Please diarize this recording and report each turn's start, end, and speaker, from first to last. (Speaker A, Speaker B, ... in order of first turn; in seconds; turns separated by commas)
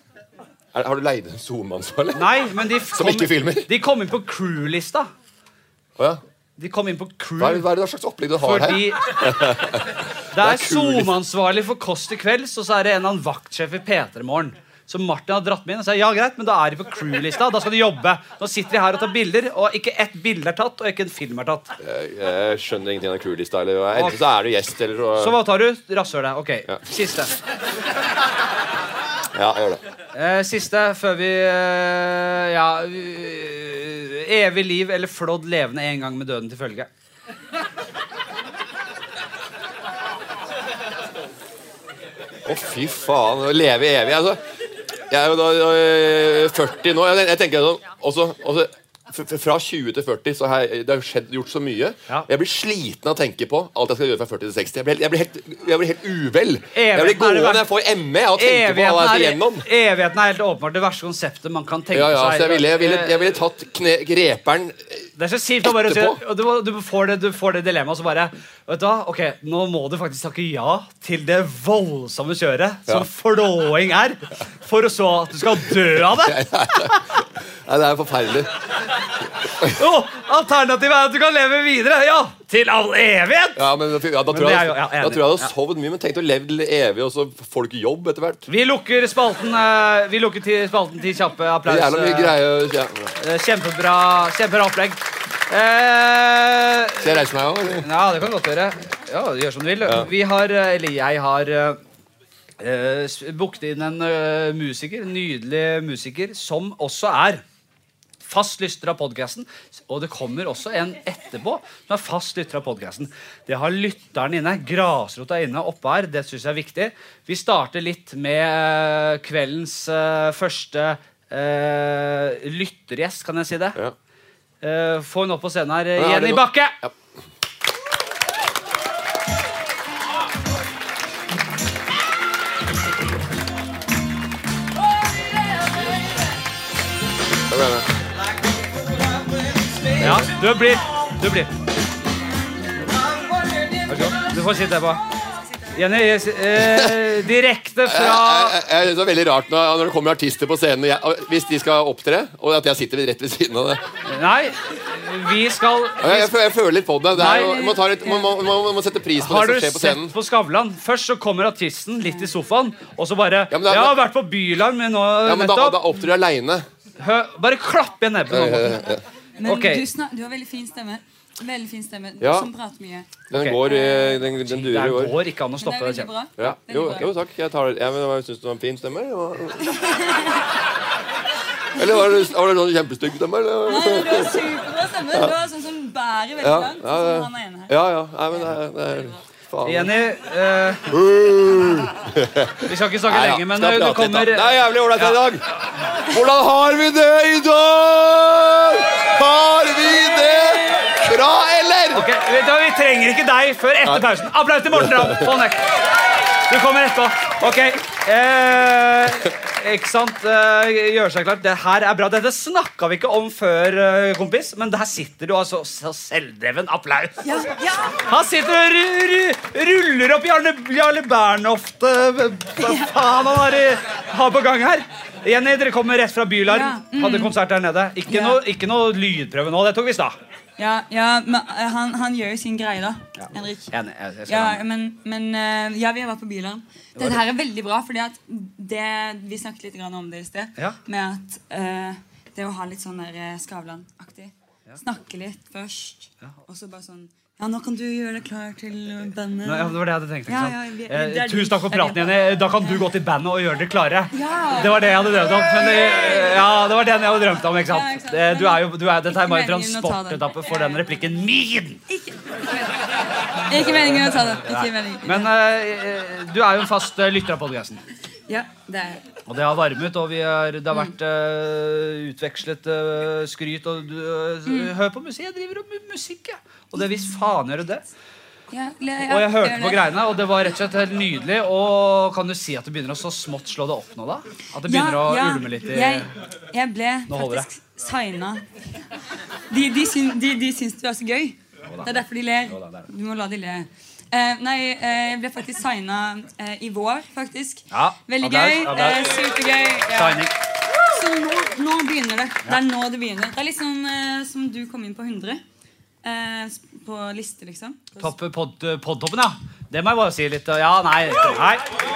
Speaker A: 0.7-2.4, Speaker B: 2.1-5.1, Speaker A: 2.9-3.7, Speaker B: 6.6-7.6, Speaker A: 7.4-11.1, Speaker B: 8.4-9.3, Speaker B: 10.3-21.7, Speaker A: 21.8-25.4, Speaker B: 25.2-27.3, Speaker A: 29.3-29.8, Speaker B: 30.1-36.9, Speaker A: 42.4-44.4, Speaker A: 45.1-59.6, Speaker B: 56.7-57.6, Speaker B: 58.4-63.2, Speaker A: 61.9-65.0, Speaker B: 65.2-76.4, Speaker A: 65.6-66.2, Speaker A: 76.0-78.5, Speaker B: 79.6-83.6, Speaker A: 83.5-88.4, Speaker B: 84.3-85.5, Speaker B: 88.5-92.3, Speaker A: 91.7-93.1, Speaker B: 93.2-97.2, Speaker A: 97.0-97.9, Speaker B: 97.8-101.8, Speaker B: 102.6-107.4, Speaker B: 108.2-123.8, Speaker B: 124.6-126.8, Speaker A: 126.0-126.9, Speaker A: 137.5-137.9, Speaker B: 140.0-141.5, Speaker B: 143.9-145.0, Speaker B: 145.7-148.6, Speaker A: 147.8-153.8, Speaker B: 154.1-156.3, Speaker A: 156.0-160.1, Speaker B: 157.1-157.8, Speaker B: 159.2-165.9, Speaker C: 162.0-162.3, Speaker A: 163.5-164.0, Speaker A: 165.2-166.6, Speaker B: 167.0-168.8, Speaker A: 168.3-169.0, Speaker C: 169.4-174.2, Speaker B: 169.4-169.9, Speaker A: 172.2-172.5, Speaker A: 173.3-175.2, Speaker B: 173.3-173.7, Speaker B: 174.3-176.1, Speaker C: 175.6-177.1, Speaker A: 176.4-179.6, Speaker C: 179.7-180.3, Speaker A: 181.8-184.4, Speaker C: 183.6-187.7, Speaker A: 186.4-189.9, Speaker B: 189.6-190.9, Speaker A: 190.9-195.4, Speaker B: 192.7-195.2, Speaker A: 196.1-202.1, Speaker B: 201.9-205.7, Speaker A: 204.8-205.2, Speaker B: 206.5-217.5, Speaker C: 217.2-218.0, Speaker B: 218.0-230.2, Speaker C: 222.6-222.9, Speaker C: 226.5-227.3, Speaker C: 228.1-228.4, Speaker C: 230.6-233.7, Speaker B: 233.2-234.6, Speaker C: 234.3-252.8, Speaker B: 236.9-237.2, Speaker B: 249.4-261.8, Speaker C: 254.1-256.5, Speaker C: 257.5-260.8, Speaker C: 261.9-265.3, Speaker B: 263.6-267.8, Speaker C: 268.3-269.0, Speaker B: 269.2-277.8, Speaker C: 274.5-274.7, Speaker C: 278.5-279.8, Speaker B: 279.1-286.1, Speaker C: 284.6-288.4, Speaker B: 287.1-287.5, Speaker C: 289.5-305.4, Speaker B: 291.7-292.9, Speaker B: 297.7-299.2, Speaker B: 299.9-300.3, Speaker C: 306.0-308.1, Speaker B: 308.0-311.6